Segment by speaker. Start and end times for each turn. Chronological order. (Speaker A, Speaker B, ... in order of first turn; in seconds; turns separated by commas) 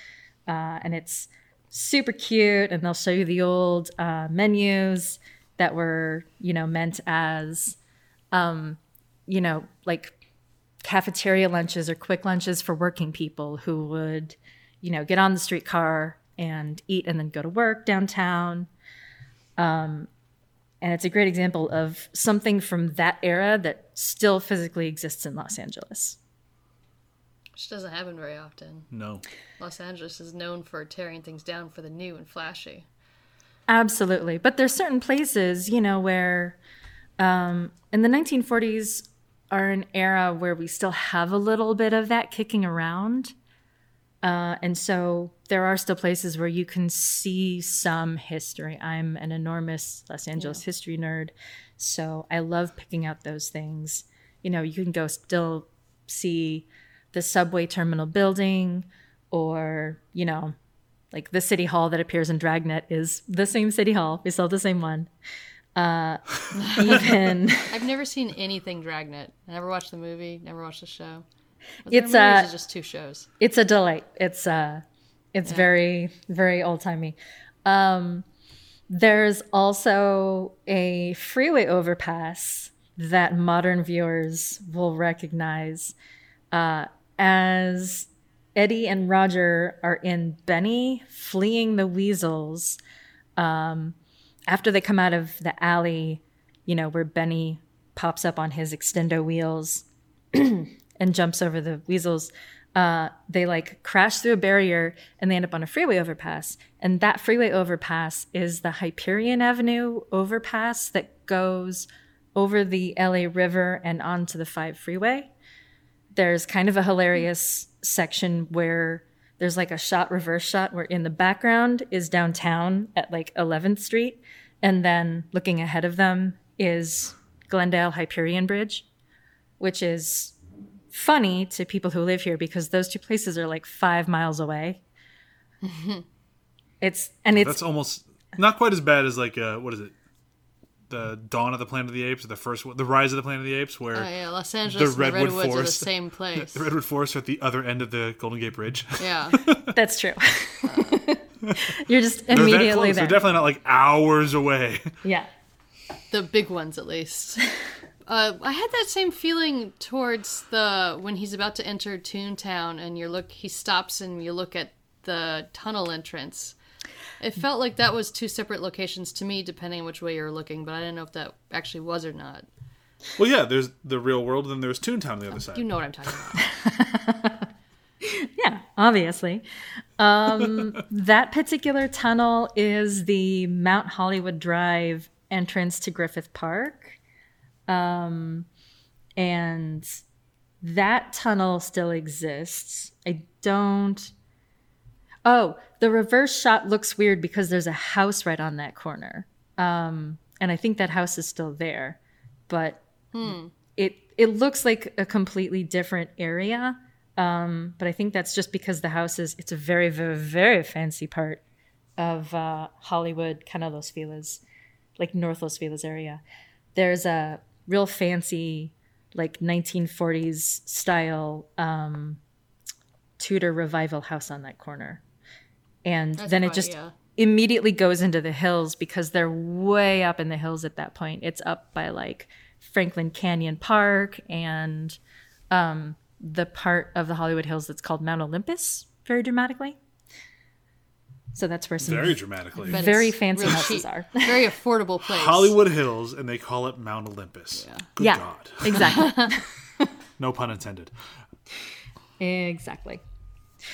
Speaker A: 0.5-7.8, Speaker A: 8.3-10.1, Speaker A: 10.8-18.7, Speaker A: 19.6-20.1, Speaker A: 20.8-26.2, Speaker B: 27.6-28.9, Speaker C: 28.9-29.2, Speaker B: 29.6-32.9, Speaker A: 33.7-36.6, Speaker A: 37.2-43.3, Speaker A: 44.2-60.5, Speaker A: 61.1-65.1, Speaker A: 65.8-67.8, Speaker B: 66.7-67.2, Speaker B: 67.7-71.2, Speaker B: 71.8-73.3, Speaker A: 71.9-72.5, Speaker A: 73.4-74.8, Speaker A: 75.3-78.2, Speaker B: 75.5-75.7, Speaker A: 78.9-85.9, Speaker A: 86.5-92.8, Speaker A: 93.4-94.0, Speaker A: 94.5-115.3, Speaker A: 116.2-128.8, Speaker A: 129.6-130.3, Speaker A: 130.9-134.8, Speaker B: 135.6-136.0, Speaker A: 136.8-137.6, Speaker C: 137.3-139.9, Speaker C: 140.9-144.1, Speaker B: 143.9-146.7, Speaker C: 144.7-149.7, Speaker B: 149.0-149.4, Speaker A: 149.7-153.2, Speaker B: 150.7-151.0, Speaker C: 152.3-154.9, Speaker A: 155.0-155.3, Speaker B: 156.1-157.4, Speaker B: 158.1-166.5, Speaker B: 167.2-172.4, Speaker C: 173.2-176.2, Speaker B: 175.5-176.5, Speaker A: 176.4-177.5, Speaker A: 178.1-179.4, Speaker A: 180.0-187.0, Speaker A: 187.7-188.5, Speaker A: 189.2-190.0, Speaker A: 190.6-194.1, Speaker A: 195.2-202.0, Speaker A: 202.5-202.8, Speaker B: 203.1-203.5, Speaker A: 203.8-211.4, Speaker A: 212.0-214.4, Speaker A: 215.0-216.2, Speaker A: 216.8-222.2, Speaker A: 223.2-225.0, Speaker A: 225.8-235.0, Speaker B: 226.2-226.9, Speaker A: 235.5-239.8, Speaker A: 241.3-244.4, Speaker C: 241.8-242.9, Speaker B: 242.7-245.5, Speaker C: 245.0-248.9, Speaker B: 247.6-247.9, Speaker A: 248.0-249.4, Speaker B: 248.7-249.3, Speaker C: 250.2-250.9, Speaker A: 252.2-253.0